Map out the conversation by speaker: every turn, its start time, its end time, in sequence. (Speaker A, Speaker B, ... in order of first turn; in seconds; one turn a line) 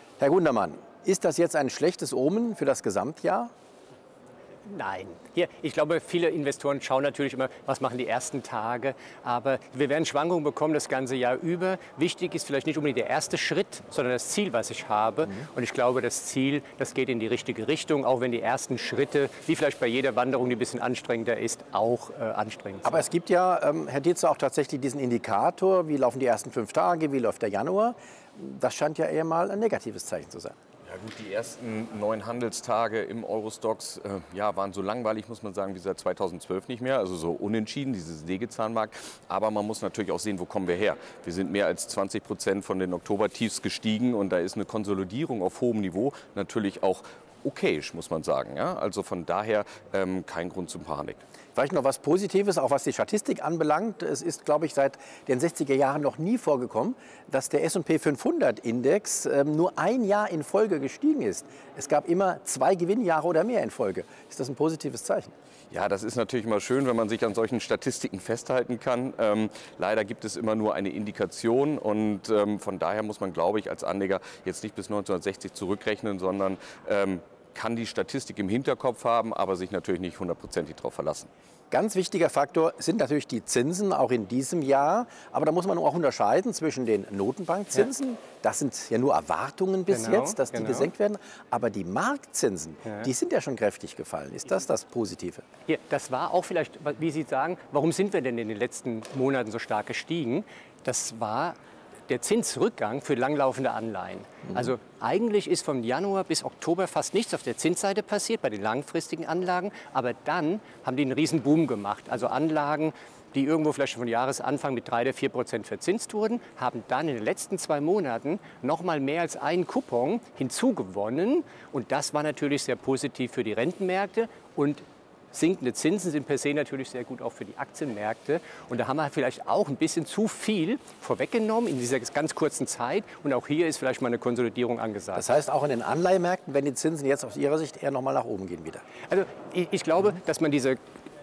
Speaker A: 0.2-3.5
Speaker B: 4.7-23.0
Speaker A: 22.8-30.6
Speaker C: 30.9-51.2
Speaker A: 51.5-65.3
Speaker C: 65.7-81.3
Speaker A: 81.7-95.4
Speaker B: 89.9-90.9
Speaker B: 95.7-101.5
Speaker B: 102.1-135.2
Speaker A: 135.1-138.8
Speaker B: 139.1-140.8